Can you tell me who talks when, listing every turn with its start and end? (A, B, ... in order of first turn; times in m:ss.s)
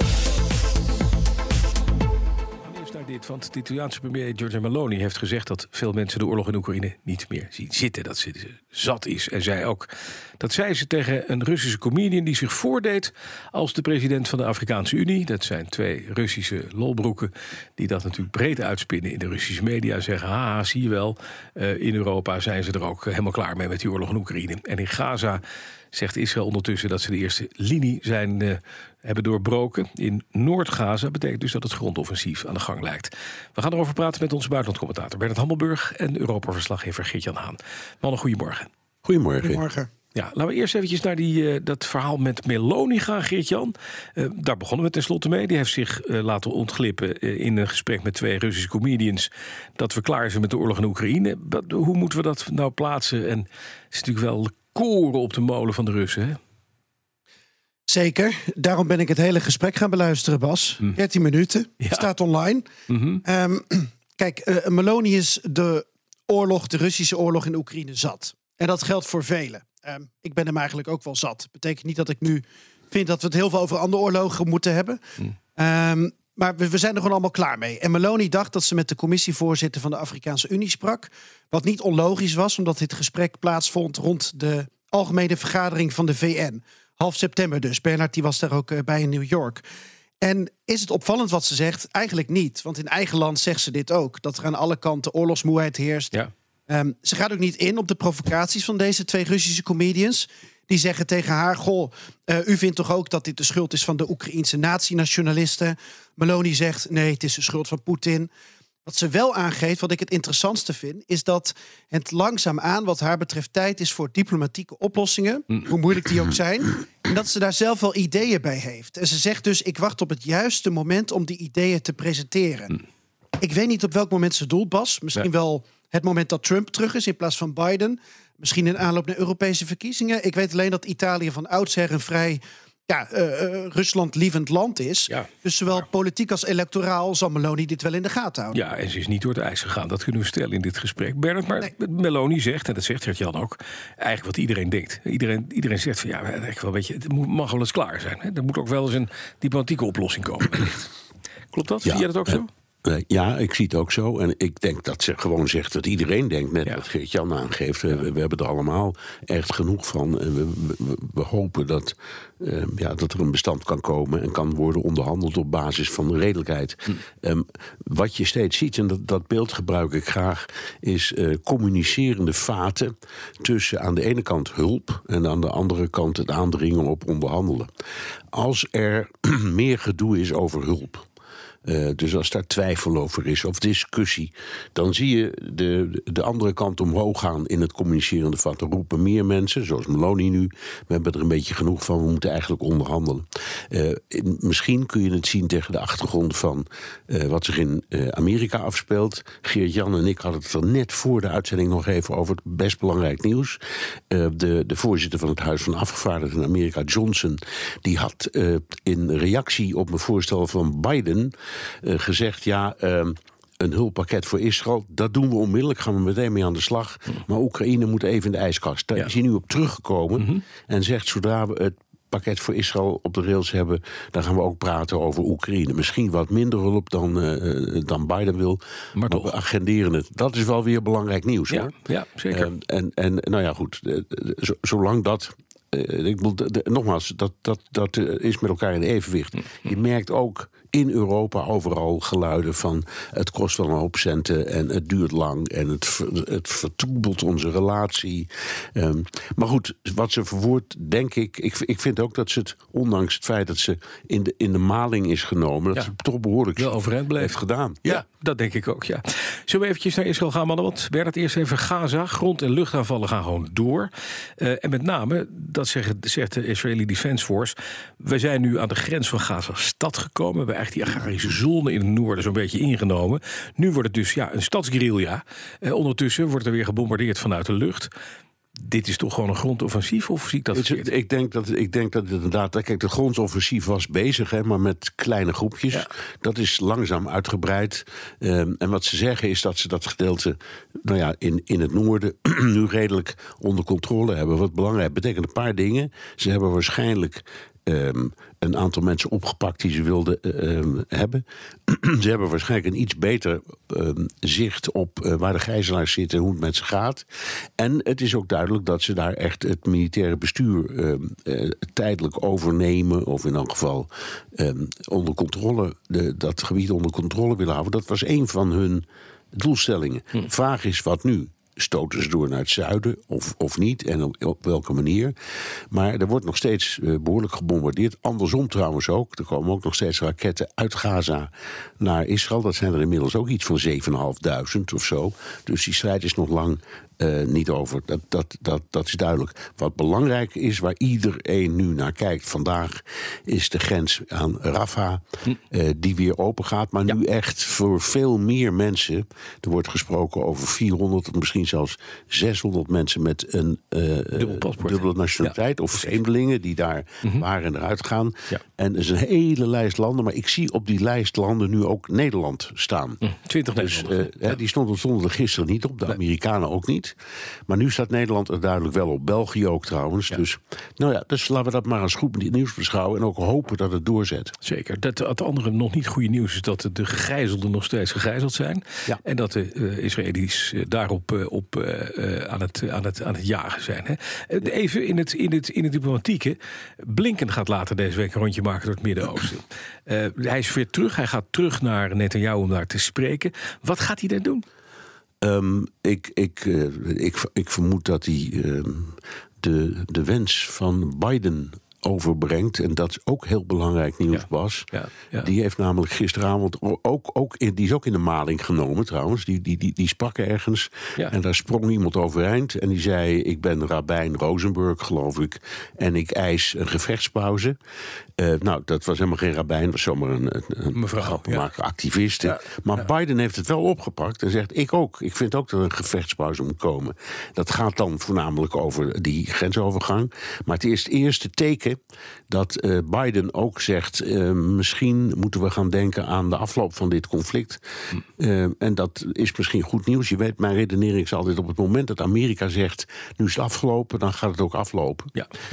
0:02.6-0:38.7 A
0:39.0-0:39.6 B
0:39.4-0:39.9 C
0:40.2-0:56.4 A
0:57.9-1:02.7 C
1:02.9-1:03.2 A
1:03.2-1:15.0 C
1:15.6-1:29.6 C
1:30.2-1:36.2 C
1:36.7-1:48.3 C
1:48.8-2:02.8 C
2:03.4-2:18.6 C
2:18.5-2:30.8 A
2:31.5-2:32.5 A
2:31.8-2:57.7 B
2:58.3-3:01.1 B
3:01.6-3:23.6 B
3:24.1-3:51.8 B
3:49.0-3:49.3 A
3:51.5-3:52.5 A
3:52.3-4:18.0 B
4:16.6-4:17.4 A
4:17.9-4:37.9 A
4:38.6-4:40.9 A
4:40.5-5:07.0 B
5:07.6-5:25.2 B
5:25.7-6:03.0 B
5:54.2-5:55.3 A
6:03.0-6:04.1 A
6:03.6-6:07.0 B
6:07.5-6:14.3 B
6:14.4-6:34.4 A
6:35.2-6:44.7 B
6:44.1-6:45.3 A
6:45.2-6:57.6 B
6:58.2-7:11.8 B
7:00.8-7:01.5 A
7:12.3-7:17.6 B
7:18.2-7:25.2 B